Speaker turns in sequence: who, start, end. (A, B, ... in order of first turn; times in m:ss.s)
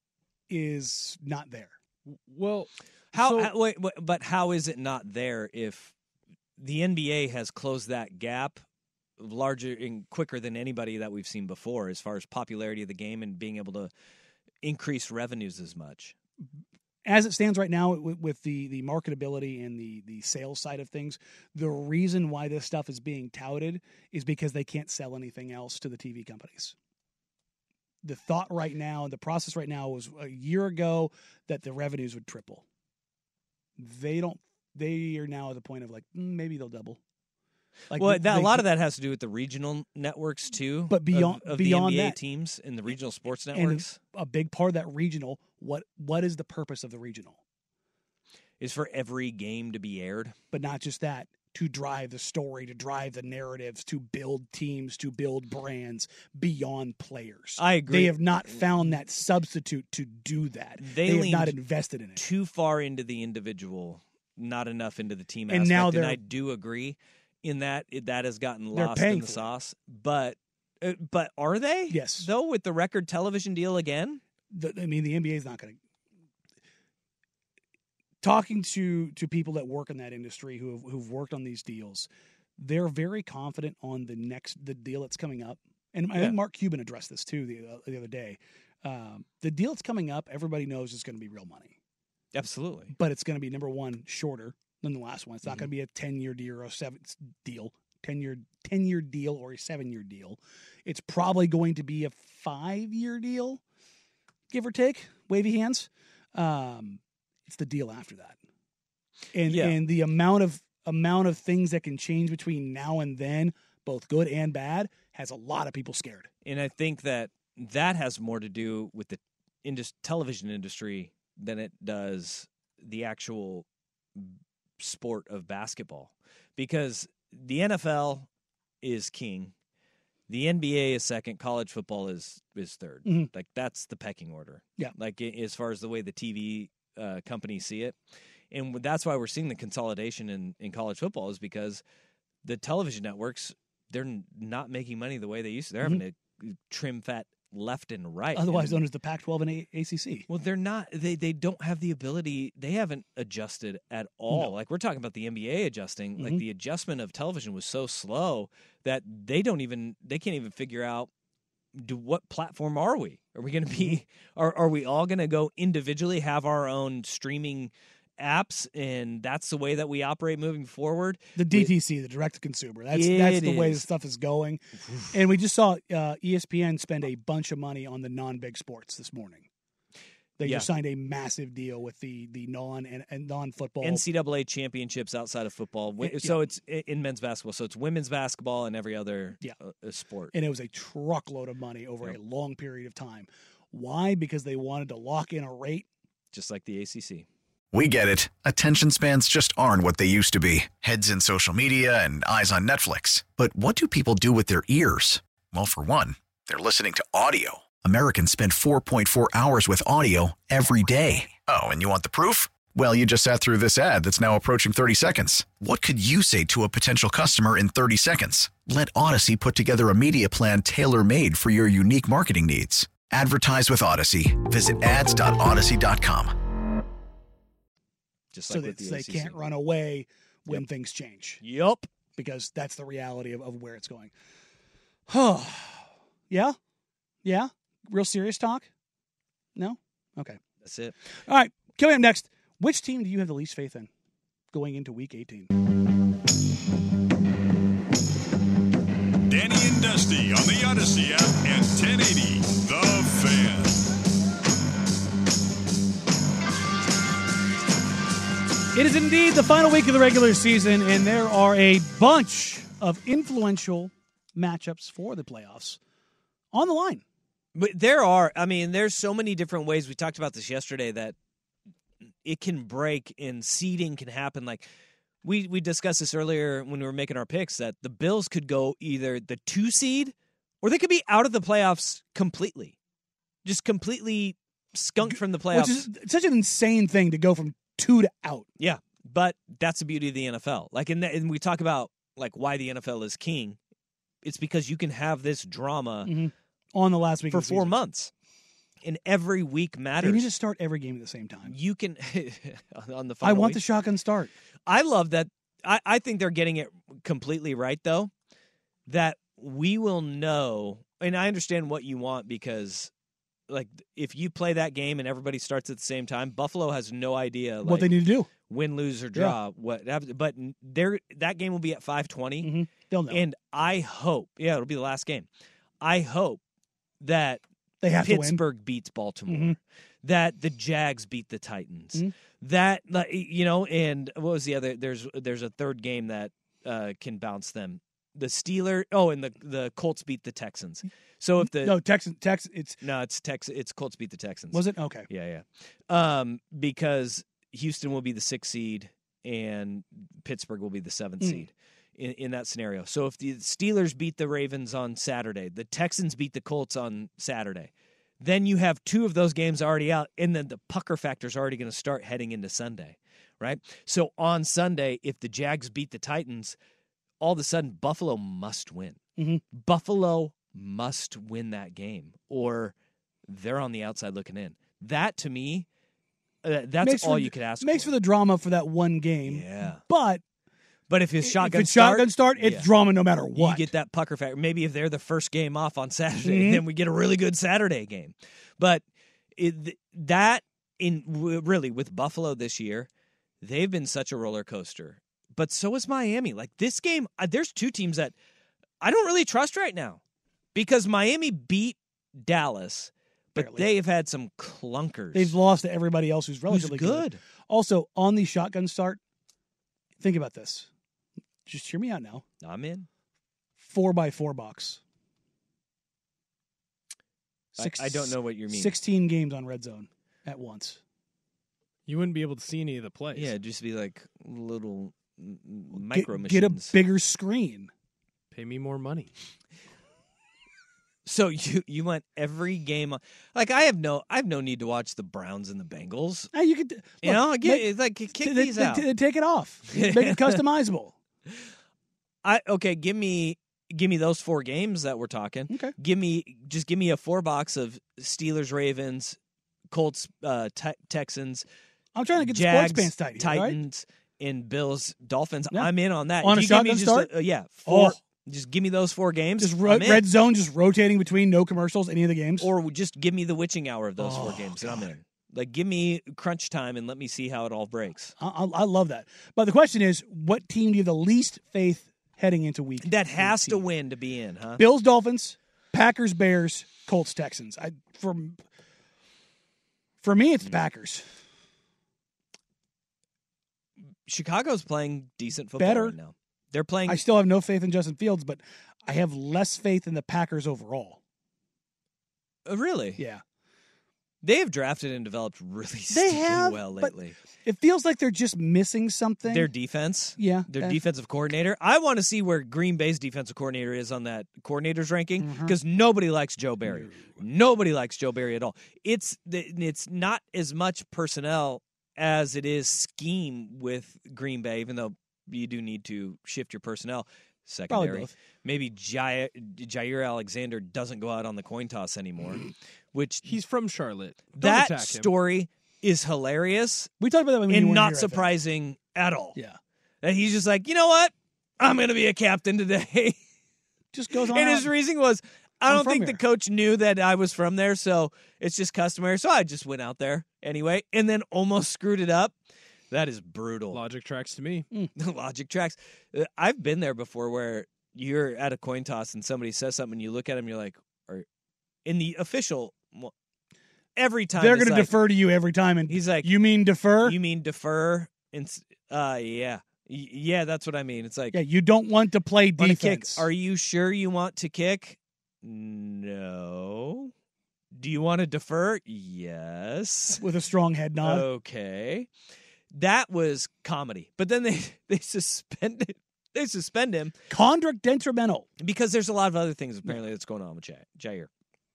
0:00.5-0:01.8 A
0:02.1-0:03.5 B
0:03.1-0:05.9 C
0:06.6-0:08.6 C
0:09.2-0:13.9 C
0:14.6-0:16.2 C
0:17.0-0:26.8 A
0:28.0-0:32.6 A
0:33.8-0:37.0 A
0:37.9-0:38.7 A
0:37.9-0:44.0 C
0:40.9-0:42.2 A
0:43.5-0:47.4 A
0:48.6-0:50.4 C
0:50.5-1:02.2 A
0:57.6-0:58.6 C
1:00.8-1:01.6 C
1:02.2-1:14.2 C
1:05.5-1:06.2 A
1:08.7-1:09.5 A
1:11.9-1:12.3 A
1:14.5-1:15.8 A
1:18.2-1:31.8 A
1:32.3-1:33.0 C
1:33.0-1:43.6 A
1:44.5-1:48.4 A
1:49.3-1:56.3 A
1:49.5-1:49.8 C
1:56.4-2:03.7 C
2:04.2-2:08.3 C
2:08.8-2:09.5 C
2:10.3-2:18.0 C
2:18.5-2:21.8 C
2:22.4-2:28.8 C
2:28.4-2:30.3 A
2:30.3-2:41.1 C
2:36.2-2:36.4 A
2:41.8-2:51.7 C
2:51.4-2:59.5 A
2:52.9-2:53.9 C
3:00.4-3:04.0 A
3:00.4-3:00.7 C
3:03.8-3:10.3 C
3:06.0-3:06.4 A
3:10.3-3:15.9 A
3:16.3-3:17.3 C
3:17.7-3:46.3 D
3:48.3-3:49.4 C
3:48.5-3:51.4 A
3:51.4-3:51.9 C
3:52.2-3:54.1 A
3:55.1-3:56.6 A
3:57.2-3:58.7 A
3:59.6-4:00.4 A
4:00.6-4:01.0 C
4:01.3-4:03.9 A
4:04.5-4:05.5 A
4:09.3-4:13.8 E
4:18.7-4:25.8 A
4:26.5-4:27.0 A
4:27.6-4:31.2 C
4:32.2-4:34.7 C
4:35.2-4:42.8 C
4:43.4-4:45.9 C
4:45.1-4:48.5 A
4:48.6-4:53.6 C
4:54.2-4:56.1 C
4:56.0-4:57.7 A
4:57.3-4:58.1 C
4:58.8-5:00.3 C
5:00.0-5:01.6 A
5:01.5-5:03.6 C
5:03.2-5:04.3 A
5:04.7-5:08.1 C
5:08.9-5:12.9 C
5:13.5-5:17.9 C
5:17.6-5:18.3 A
5:18.5-5:22.5 C
5:22.4-5:23.2 A
5:23.1-5:25.3 C
5:25.8-5:26.4 C
5:27.0-5:27.4 C
5:27.8-5:28.4 A
5:28.0-5:41.8 C
5:29.3-5:29.6 A
5:41.4-5:42.8 A
5:42.8-6:06.6 C
5:44.5-5:45.1 A
5:51.2-5:51.5 A
6:07.2-6:09.0 C
6:09.2-6:09.4 A
6:09.5-6:12.7 C
6:13.3-6:15.7 C
6:16.4-6:17.9 C
6:16.8-6:20.2 A
6:19.3-6:19.8 C
6:20.9-6:22.7 C
6:21.2-6:23.7 A
6:23.4-6:28.8 C
6:26.2-6:26.6 A
6:29.4-6:32.9 C
6:33.4-6:38.1 C
6:38.8-6:40.0 C
6:40.5-6:45.4 C
6:43.4-6:43.7 A
6:45.2-6:49.0 A
6:46.5-6:47.2 C
6:50.0-6:50.7 A
6:51.5-6:52.2 A
6:52.4-6:52.9 C
6:53.6-6:54.8 A
6:57.6-7:00.8 A
6:57.6-6:58.8 C
7:01.9-7:03.3 B
7:03.1-7:06.8 C
7:05.7-7:07.7 A
7:08.3-7:09.1 B
7:11.1-7:16.3 C
7:16.3-7:21.0 A
7:17.0-7:18.9 C
7:19.7-7:20.4 C
7:22.2-7:29.2 C
7:25.5-7:25.8 A
7:29.7-7:31.5 C
7:32.0-7:33.6 A
7:32.2-7:40.1 C
7:36.2-7:37.1 A
7:37.7-7:38.0 A
7:39.4-7:42.5 A
7:42.4-7:48.1 C
7:44.0-7:44.9 A
7:48.2-7:53.7 A
7:52.8-7:54.6 C
7:54.6-7:58.4 A
8:00.0-8:01.0 A
8:04.1-8:07.0 C
8:05.6-8:06.0 A
8:06.9-8:11.0 A
8:12.5-8:13.0 C
8:13.0-8:13.2 A
8:14.2-8:17.2 C
8:15.9-8:19.5 A
8:19.3-8:43.4 C
8:20.2-8:20.8 A
8:25.2-8:25.6 A
8:26.7-8:27.2 A
8:37.7-8:38.1 A
8:43.2-8:45.1 B
8:44.4-8:46.9 C
8:47.0-8:48.3 A
8:47.5-8:49.4 C
8:50.0-8:53.2 C
8:53.9-8:54.7 A
8:54.3-9:02.4 C
8:55.7-8:56.2 A
9:02.9-9:03.8 C
9:03.7-9:04.7 B
9:05.0-9:11.3 C
9:11.8-9:13.1 C
9:14.0-9:15.0 C
9:14.4-9:17.2 A
9:15.9-9:16.3 C
9:17.0-9:21.4 C
9:21.3-9:23.3 A
9:22.6-9:27.1 C
9:27.8-9:30.2 C
9:30.2-9:31.2 A
9:31.0-9:32.1 C
9:32.7-9:37.2 C
9:37.3-9:38.5 A
9:38.6-9:41.3 C